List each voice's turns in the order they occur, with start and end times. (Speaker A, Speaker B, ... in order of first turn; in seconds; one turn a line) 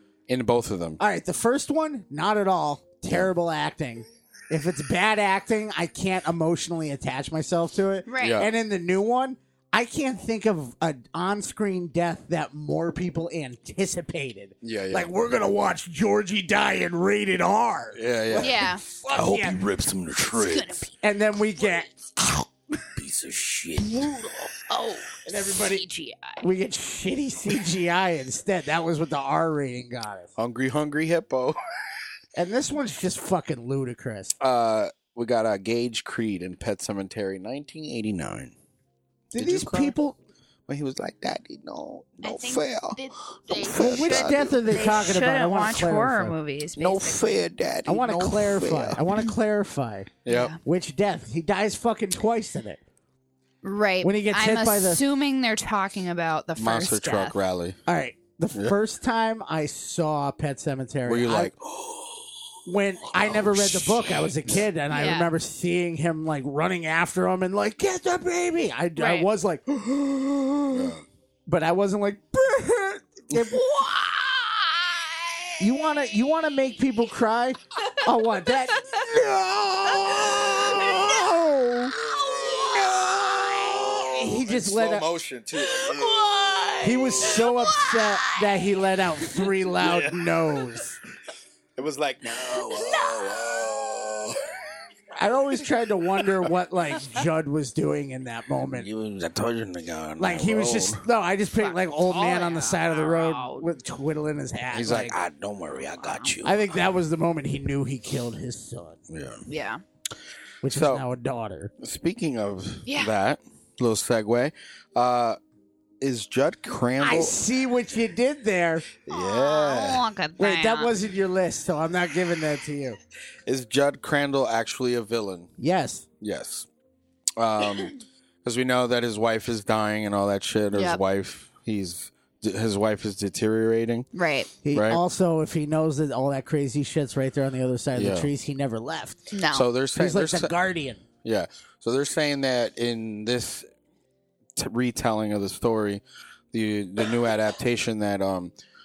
Speaker A: 0.3-1.0
Speaker B: 1.0-19.6
Speaker C: 8.1-8.4
Speaker A: 8.2-8.5
Speaker A: 14.6-15.1
Speaker A: 17.9-20.9
Speaker C: 18.4-18.8
Speaker C: 20.3-20.9
Speaker B: 21.0-21.9
Speaker A: 22.9-24.5
Speaker C: 24.6-26.4
Speaker B: 25.2-25.8
Speaker B: 26.4-30.3
Speaker A: 30.4-31.6
Speaker B: 32.4-34.4
Speaker A: 34.4-38.5
Speaker B: 39.3-40.2
Speaker A: 39.4-40.0
Speaker A: 40.7-44.9
Speaker C: 42.2-47.4
Speaker B: 43.7-46.4
Speaker A: 46.8-49.0
Speaker B: 47.9-50.1
Speaker A: 50.2-50.5
Speaker C: 50.3-50.6
Speaker B: 50.6-52.8
Speaker C: 53.6-57.4
Speaker B: 54.0-55.0
Speaker A: 56.6-57.8
Speaker B: 57.9-61.5
Speaker A: 61.1-62.3
Speaker B: 62.7-69.7
Speaker A: 63.0-64.7
Speaker C: 64.9-65.3
Speaker C: 69.0-69.3
Speaker A: 70.7-71.0
Speaker B: 71.5-73.6
Speaker C: 73.6-75.0
Speaker B: 75.6-81.9
Speaker A: 79.8-81.2
Speaker C: 80.0-81.1
Speaker A: 82.0-86.5
Speaker C: 82.1-84.1
Speaker B: 84.0-85.1
Speaker C: 85.6-88.4
Speaker B: 86.8-91.0
Speaker A: 89.8-90.2
Speaker A: 91.8-94.4
Speaker C: 92.8-93.4
Speaker B: 95.2-98.9
Speaker A: 98.7-101.0
Speaker B: 100.2-105.2
Speaker C: 101.6-103.7
Speaker A: 104.7-106.7
Speaker C: 106.0-106.3
Speaker B: 106.4-109.0
Speaker A: 109.1-109.4
Speaker C: 109.5-109.8
Speaker B: 110.6-111.7
Speaker A: 110.7-111.0
Speaker A: 111.8-115.4
Speaker C: 112.9-113.1
Speaker A: 116.0-117.4
Speaker B: 117.0-118.9
Speaker A: 119.1-120.0
Speaker C: 119.1-120.9
Speaker B: 120.4-123.0
Speaker A: 123.5-125.5
Speaker B: 125.6-126.1
Speaker A: 126.2-126.7
Speaker A: 127.4-134.1
Speaker C: 130.7-131.0
Speaker C: 134.1-134.5
Speaker B: 134.6-139.2
Speaker A: 134.7-135.0
Speaker A: 137.9-138.3
Speaker C: 139.3-139.7
Speaker A: 139.5-140.5
Speaker B: 140.0-141.0
Speaker A: 141.2-143.7
Speaker A: 144.6-148.5